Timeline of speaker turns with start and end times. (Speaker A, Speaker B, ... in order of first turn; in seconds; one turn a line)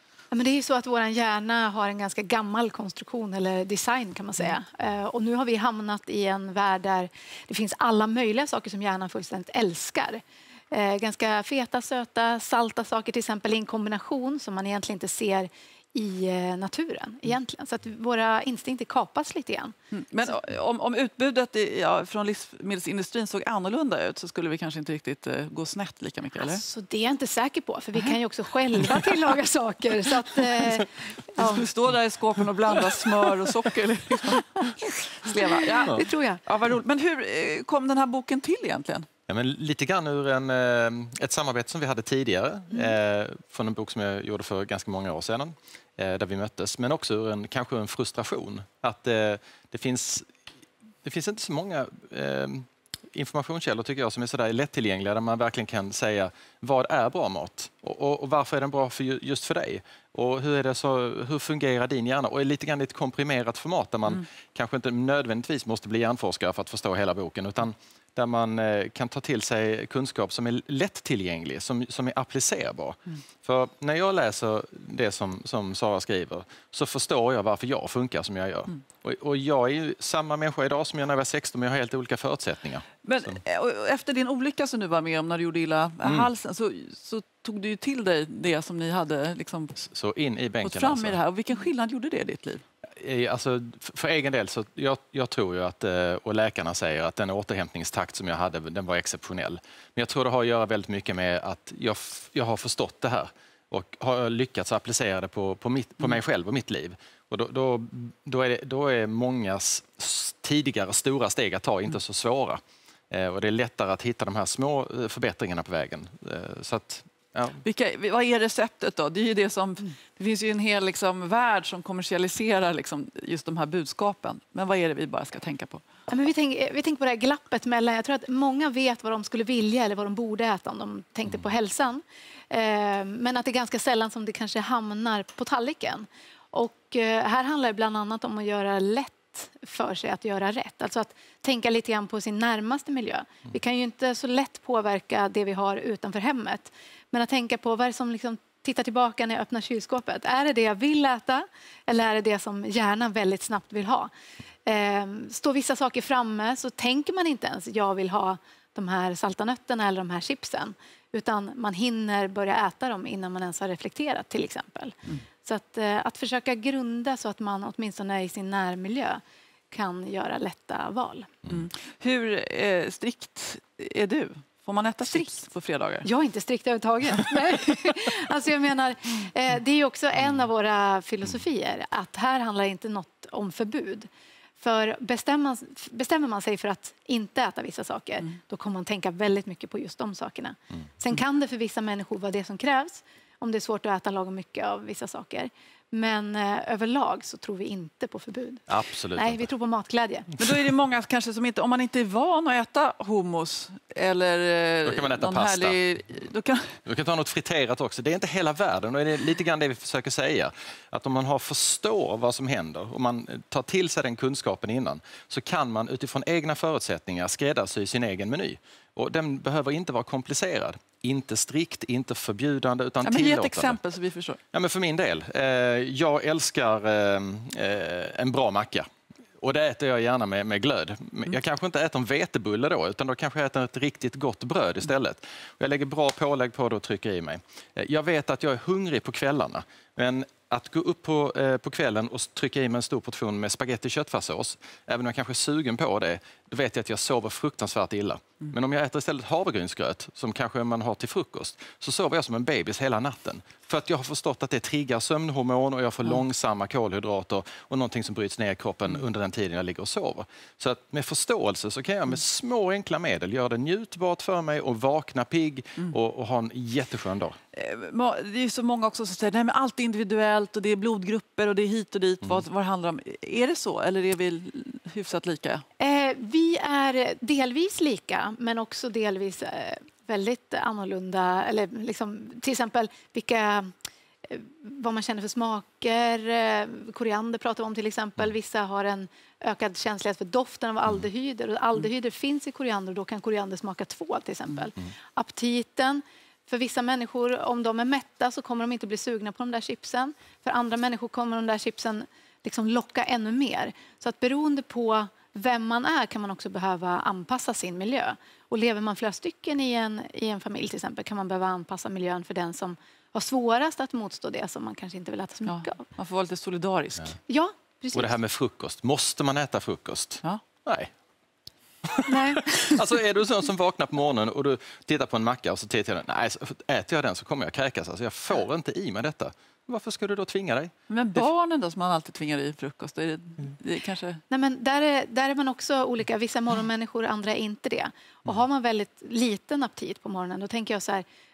Speaker A: 0.3-19.7
Speaker B: 19.9-26.6
Speaker A: 26.4-31.6
Speaker B: 31.4-39.1
Speaker A: 35.2-36.4
Speaker C: 39.3-50.4
Speaker C: 51.0-83.4
Speaker B: 83.0-89.8
Speaker C: 86.0-86.3
Speaker C: 89.8-91.2
Speaker B: 90.6-92.6
Speaker C: 93.0-117.6
Speaker B: 117.6-125.8
Speaker A: 126.1-154.1
Speaker A: 154.7-171.3
Speaker B: 171.5-176.1
Speaker A: 176.0-200.3
Speaker C: 198.7-199.5
Speaker B: 200.4-206.8
Speaker C: 204.8-205.8
Speaker C: 206.8-223.8
Speaker B: 223.0-224.4
Speaker C: 224.5-228.9
Speaker C: 229.4-267.3
Speaker B: 267.5-275.6
Speaker A: 275.8-283.7
Speaker A: 284.2-315.8
Speaker B: 315.4-317.2
Speaker A: 317.3-318.1
Speaker C: 317.9-320.9
Speaker C: 321.9-330.7
Speaker A: 322.1-322.6
Speaker B: 330.9-334.2
Speaker A: 334.3-341.0